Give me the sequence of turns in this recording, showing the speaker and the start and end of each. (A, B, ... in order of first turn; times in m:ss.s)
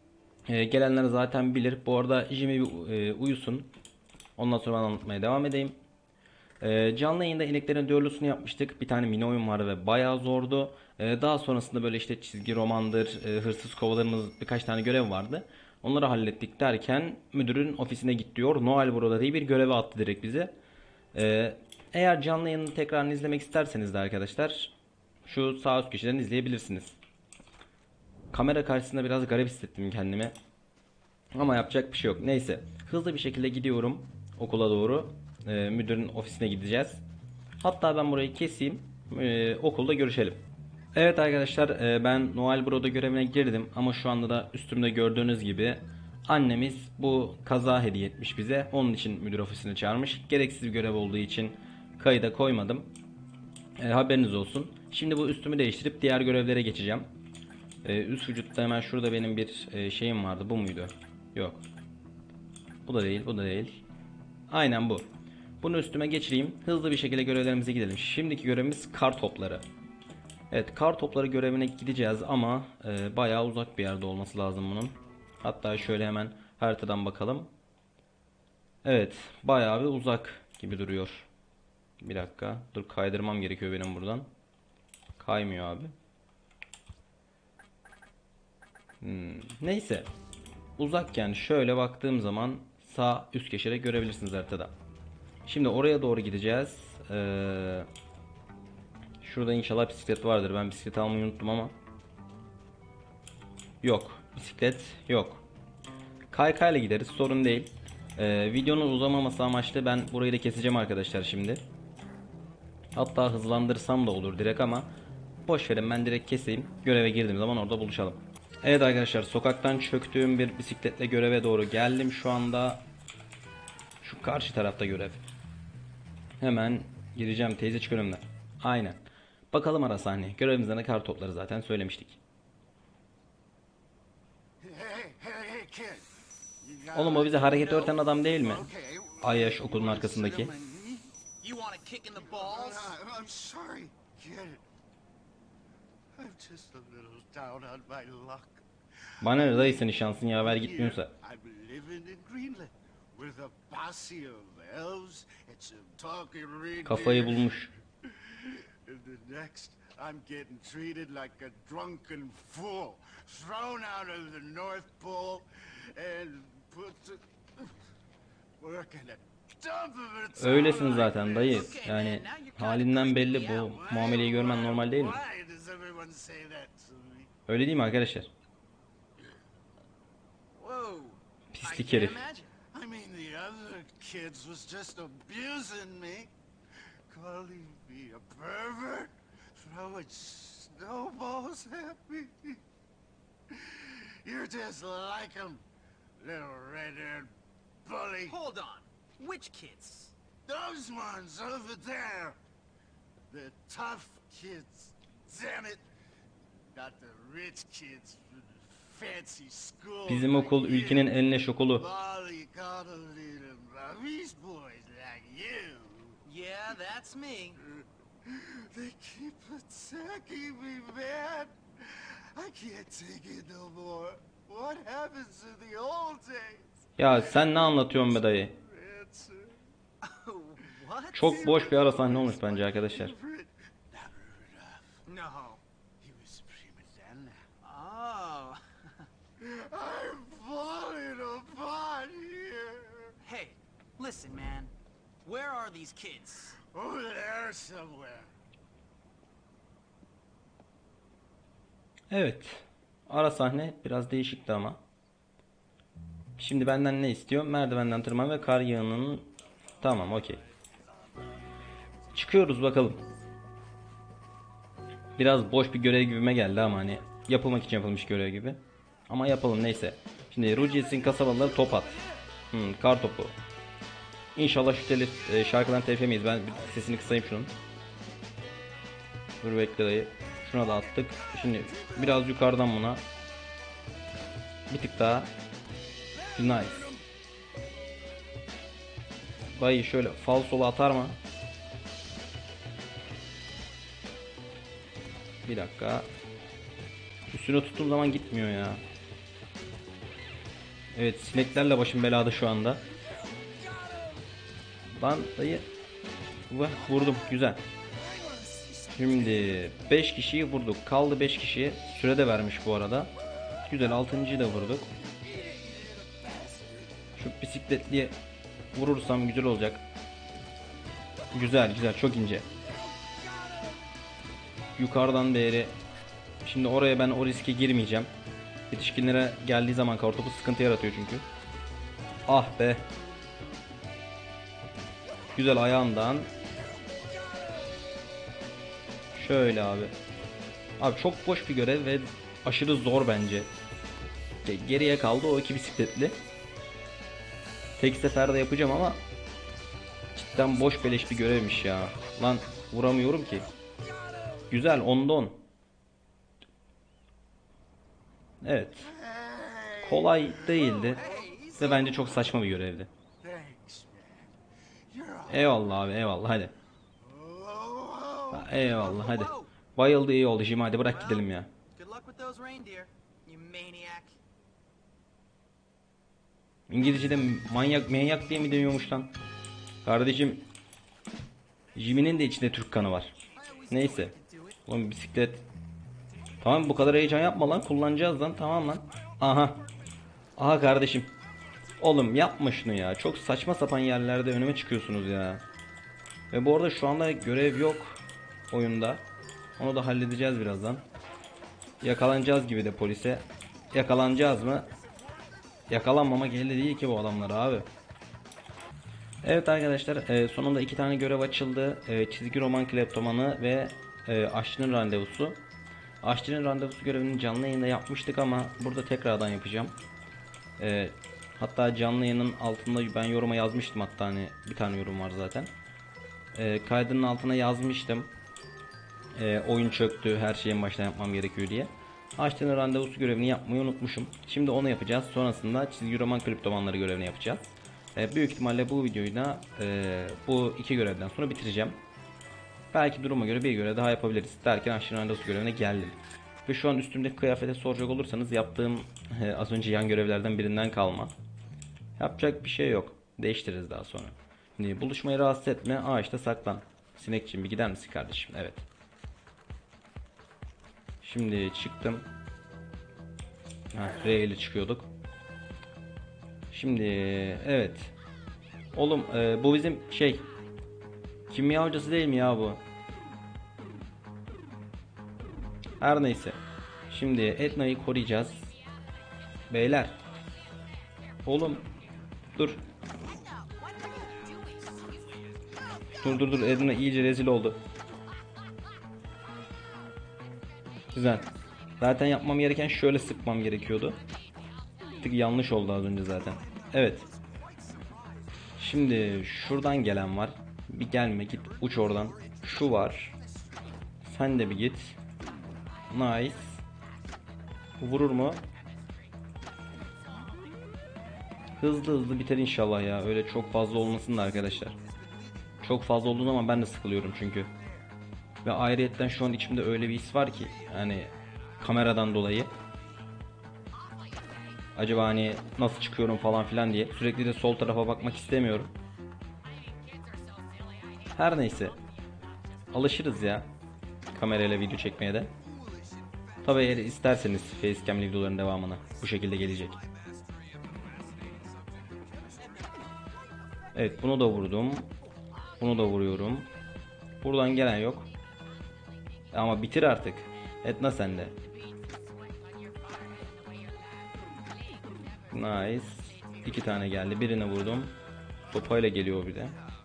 0:00.5-0:03.7 A
0:04.4-0:05.8 A
0:06.6-0:20.6 A
0:21.1-0:24.7 A
0:25.3-0:27.0 A
0:28.3-0:30.3 A
0:31.3-0:37.0 A
0:37.6-0:40.4 A
0:40.9-0:52.9 A
0:53.8-0:57.1 A
0:57.8-1:01.6 A
1:02.9-1:03.8 A
1:04.5-1:05.1 A
1:05.6-1:09.6 A
1:10.5-1:17.5 A
1:18.8-1:21.3 A
1:22.0-1:24.3 A
1:25.2-1:25.9 A
1:29.0-1:30.1 A
1:30.8-1:34.7 A
1:35.4-1:37.9 A
1:39.2-1:41.7 A
1:43.8-1:45.4 A
1:46.3-1:51.6 A
1:53.0-1:54.9 A
1:55.4-2:02.9 A
2:04.0-2:05.2 A
2:06.4-2:09.0 A
2:09.5-2:12.2 A
2:14.6-2:21.1 B
2:16.9-2:18.7 A
2:19.2-2:20.5 A
2:21.4-2:22.9 C
2:22.2-2:24.6 B
2:26.2-2:28.6 B
2:29.2-2:29.9 B
2:29.2-2:31.1 A
2:30.4-2:37.5 B
2:36.8-2:37.7 A
2:38.0-2:47.8 B
2:48.6-2:51.7 B
2:50.4-2:55.2 A
2:51.4-2:53.9 C
2:53.6-2:57.3 B
2:57.5-2:58.3 A
3:00.6-3:02.5 C
3:01.5-3:02.2 A
3:02.7-3:06.3 B
3:07.1-3:12.6 B
3:13.5-3:15.6 B
3:16.2-3:18.4 B
3:18.2-3:20.1 C
3:20.4-3:22.4 B
3:23.3-3:25.9 B
3:26.7-3:31.1 B
3:30.1-3:31.8 A
3:31.7-3:36.2 B
3:36.2-3:37.6 C
3:37.6-3:49.6 B
3:47.0-3:48.5 A
3:50.0-3:51.7 C
3:51.1-3:53.2 A
3:51.2-3:55.0 B
3:55.1-3:55.6 C
3:56.0-3:57.4 B
3:57.6-3:58.6 C
3:59.4-4:03.2 B
4:03.2-4:04.7 C
4:05.2-4:06.6 C
4:06.7-4:08.3 B
4:12.1-4:14.8 A
4:16.4-4:20.4 A
4:22.1-4:23.1 A
4:25.2-4:33.4 A
4:30.9-4:32.2 B
4:34.4-4:37.5 A
4:39.4-4:43.0 A
4:40.6-4:42.3 B
4:44.7-4:45.3 A
4:46.1-4:47.1 B
4:46.4-4:46.9 A
4:49.6-4:51.2 A
4:55.4-4:56.1 A
4:57.3-4:58.8 A
5:00.9-5:02.8 A
5:03.2-5:04.2 B
5:04.9-5:05.7 A
5:06.5-5:07.6 A
5:07.9-5:09.7 B
5:09.0-5:13.1 A
5:13.6-5:14.9 A
5:14.9-5:17.1 B
5:17.2-5:18.2 A
5:18.7-5:19.8 A
5:21.3-5:22.5 A
5:22.6-5:23.9 B
5:24.8-5:25.8 A
5:26.4-5:28.1 A
5:28.7-5:31.2 A
5:32.3-5:32.9 A
5:35.4-5:36.3 A
5:36.9-5:37.6 B
5:39.2-5:40.0 A
5:40.8-5:43.5 A
5:44.4-5:46.2 A
5:47.8-5:49.0 A
5:50.2-5:53.5 A
5:53.7-5:54.5 B
5:54.5-5:55.4 A
5:58.4-5:58.9 A
5:58.8-6:01.9 B
5:59.8-6:01.0 A
6:00.6-6:01.9 C
6:01.6-6:02.9 A
6:03.2-6:04.4 B
6:04.9-6:05.8 B
6:05.3-6:06.5 A
6:07.0-6:08.5 B
6:08.3-6:11.5 A
6:08.7-6:09.5 C
6:10.8-6:14.2 C
6:16.7-6:19.2 A
6:19.8-6:20.5 A
6:21.8-6:23.1 A
6:23.3-6:24.6 C
6:23.7-6:24.1 A
6:24.7-6:25.5 A
6:26.4-6:29.6 A
6:30.4-6:31.2 A
6:31.8-6:35.4 A
6:36.3-6:39.0 A
6:39.6-6:40.8 A
6:41.8-6:44.7 A
6:45.7-6:47.7 A
6:49.2-6:55.4 A
6:56.0-6:59.8 A
7:00.6-7:05.5 A
7:06.3-7:08.1 A
7:09.1-7:21.8 A
7:22.7-7:31.2 A
7:32.0-7:38.7 A
7:41.0-7:42.1 A
7:43.7-7:44.9 A
7:46.5-7:47.9 A
7:48.7-7:50.3 A
7:51.3-7:52.6 A
7:55.8-7:58.5 A
7:59.5-8:00.0 A
8:00.4-8:01.8 C
8:01.2-8:01.7 A
8:02.4-8:02.6 A
8:02.9-8:06.8 C
8:06.0-8:07.6 A
8:09.4-8:10.1 C
8:10.8-8:11.3 C
8:10.9-8:11.3 A
8:11.8-8:14.0 A
8:14.0-8:15.0 C
8:15.0-8:17.1 A
8:16.3-8:18.2 B
8:18.6-8:23.2 A
8:22.2-8:22.4 B
8:23.2-8:23.5 B
8:24.0-8:25.0 A
8:25.5-8:27.4 C
8:25.9-8:26.6 A
8:27.8-8:28.4 A
8:28.0-8:30.5 C
8:31.6-8:34.8 A
8:34.8-8:35.6 B
8:35.6-8:37.5 A
8:37.5-8:37.9 B
8:38.4-8:42.5 A
8:43.7-8:44.7 C
8:44.8-8:48.7 A
8:49.4-8:53.1 C
8:51.2-8:51.8 A
8:52.7-8:53.5 A
8:54.1-8:55.3 A
8:55.4-8:56.8 B
8:56.4-8:59.8 A
8:59.8-9:03.1 B
9:03.7-9:04.9 A
9:05.6-9:06.5 A
9:07.2-9:08.1 A
9:09.3-9:11.3 A
9:11.3-9:17.0 C
9:15.3-9:18.0 A
9:18.5-9:19.6 A